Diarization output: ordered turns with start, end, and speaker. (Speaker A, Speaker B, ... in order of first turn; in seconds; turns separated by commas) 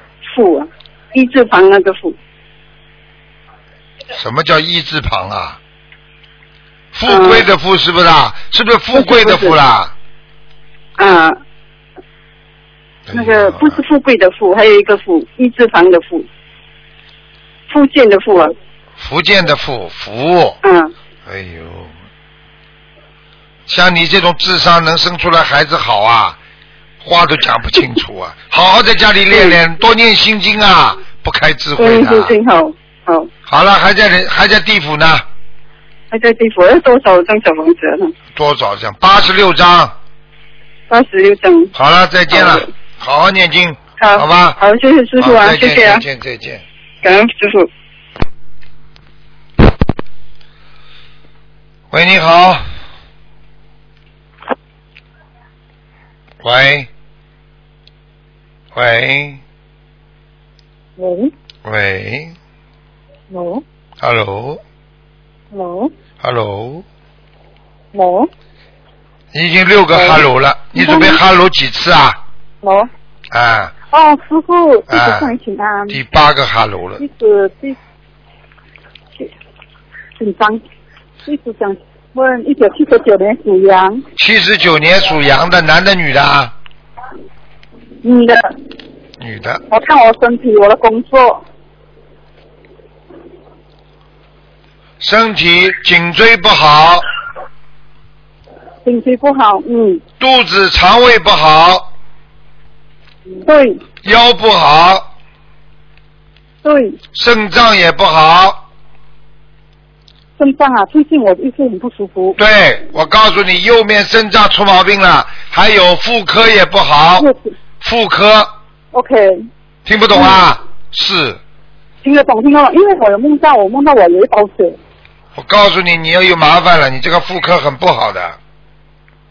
Speaker A: 0.2-2.2, Speaker B: 4.1-5.6, Speaker B: 6.9-9.9, Speaker A: 7.1-7.5, Speaker A: 8.9-9.6, Speaker A: 11.0-11.4, Speaker B: 13.1-13.8, Speaker A: 13.1-16.3, Speaker A: 17.7-18.6, Speaker B: 19.0-20.6, Speaker A: 20.6-20.9, Speaker B: 21.3-21.9, Speaker B: 23.7-26.4, Speaker B: 27.0-32.3, Speaker A: 29.3-29.6, Speaker A: 31.8-33.3, Speaker B: 33.5-35.2, Speaker A: 36.1-38.1, Speaker B: 38.4-40.0, Speaker A: 40.9-41.7, Speaker B: 41.8-44.6, Speaker A: 42.3-42.7, Speaker A: 44.0-46.0, Speaker B: 45.2-46.6, Speaker A: 47.0-47.7, Speaker B: 51.9-52.6, Speaker B: 56.4-56.9, Speaker B: 58.7-59.4, Speaker C: 61.0-61.3, Speaker B: 61.6-62.4, Speaker C: 63.3-63.6, Speaker B: 64.0-64.6, Speaker C: 65.5-65.9, Speaker B: 66.2-66.8, Speaker C: 67.9-68.3, Speaker B: 69.3-72.2, Speaker C: 69.9-70.2, Speaker C: 70.8-71.2, Speaker C: 72.6-72.9, Speaker B: 73.3-73.7, Speaker C: 73.9-76.0, Speaker B: 74.9-75.3, Speaker B: 75.9-77.0, Speaker C: 77.0-77.8, Speaker C: 80.2-80.6, Speaker C: 81.3-84.0, Speaker B: 84.2-86.5, Speaker C: 88.0-88.5, Speaker B: 89.2-89.6, Speaker C: 89.7-91.4, Speaker B: 95.0-97.1, Speaker C: 98.8-100.0, Speaker B: 100.2-101.9, Speaker C: 103.3-103.8, Speaker B: 104.0-105.1, Speaker C: 106.6-107.0, Speaker B: 107.1-108.6, Speaker C: 110.4-112.4, Speaker B: 112.4-117.3, Speaker C: 117.2-117.5, Speaker B: 117.8-118.5, Speaker C: 118.9-119.5, Speaker B: 119.8-121.4, Speaker C: 122.0-124.8, Speaker B: 125.4-128.4